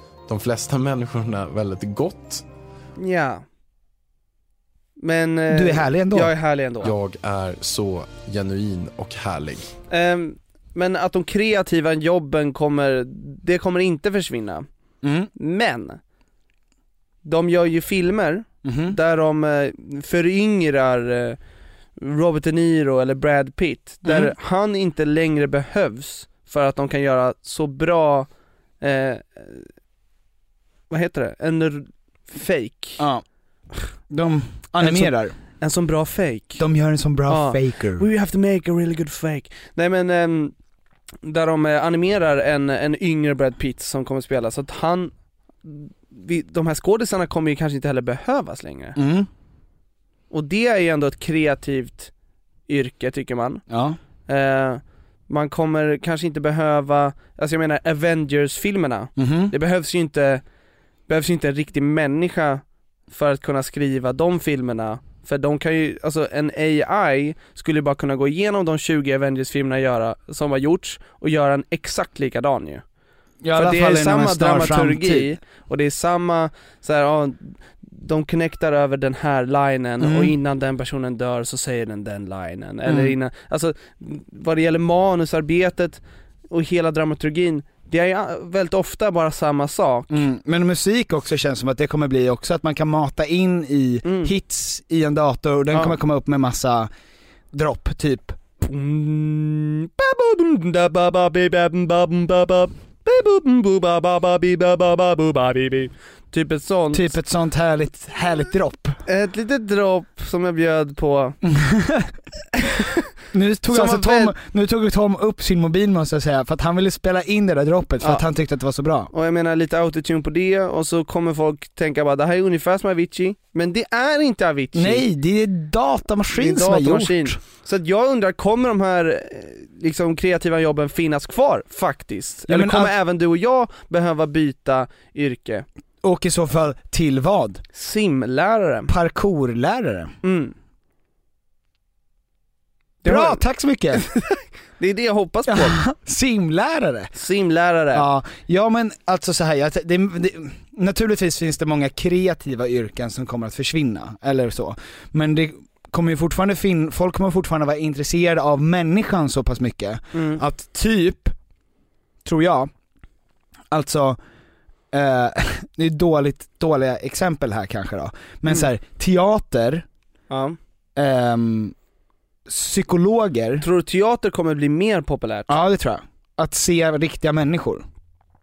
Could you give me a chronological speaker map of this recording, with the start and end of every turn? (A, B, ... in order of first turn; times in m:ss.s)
0:00.3-0:02.4 A
0:03.0-0:03.4 B
0:05.0-0:06.9 B
0:05.5-0:06.3 C
0:06.8-0:09.7 A
0:09.9-0:14.6 B
0:15.0-0:15.3 C
0:15.4-0:16.0 B
0:17.2-0:21.4 B
0:18.6-0:19.0 C
0:22.0-0:28.3 B
0:24.0-0:24.3 C
0:28.8-0:29.7 B
0:30.9-0:33.0 B
0:33.0-0:33.2 C
0:34.1-0:35.3 C
0:34.8-0:36.6 B
0:36.6-0:38.0 C
0:37.3-0:40.5 B
0:41.2-0:45.1 B
0:45.6-0:49.0 B
0:48.9-0:49.3 C
0:50.3-0:52.1 B
0:52.7-0:53.6 B
0:53.7-0:54.0 C
0:54.3-1:00.4 B
0:59.2-0:59.5 C
1:01.1-1:12.8 B
1:13.4-1:15.4 C
1:13.6-1:30.1 B
1:20.0-1:20.3 C
1:22.8-1:23.1 C
1:30.1-1:36.9 C
1:34.0-1:34.3 B
1:37.5-1:38.4 C
1:38.6-1:47.2 B
1:46.9-1:49.0 C
1:49.0-1:51.4 B
1:51.4-1:52.1 C
1:53.3-1:59.1 C
1:53.7-1:54.3 B
1:59.1-2:05.0 B
2:04.7-2:07.4 C
2:06.3-2:15.6 B
2:12.5-2:12.9 C
2:16.0-2:17.6 C
2:17.7-2:18.9 B
2:18.9-2:20.1 C
2:20.2-2:20.5 B
2:23.0-2:23.4 B
2:23.0-2:24.0 C
2:23.9-2:25.8 B
2:25.5-2:27.1 C
2:27.1-2:28.0 B
2:27.9-2:41.3 C
2:40.1-2:40.4 B
2:42.2-2:42.7 C
2:43.7-2:44.2 C
2:44.9-2:49.8 C
2:50.3-2:50.6 B
2:51.0-2:51.7 C
2:52.5-2:53.6 C
2:53.6-2:55.5 B
2:55.5-2:57.8 C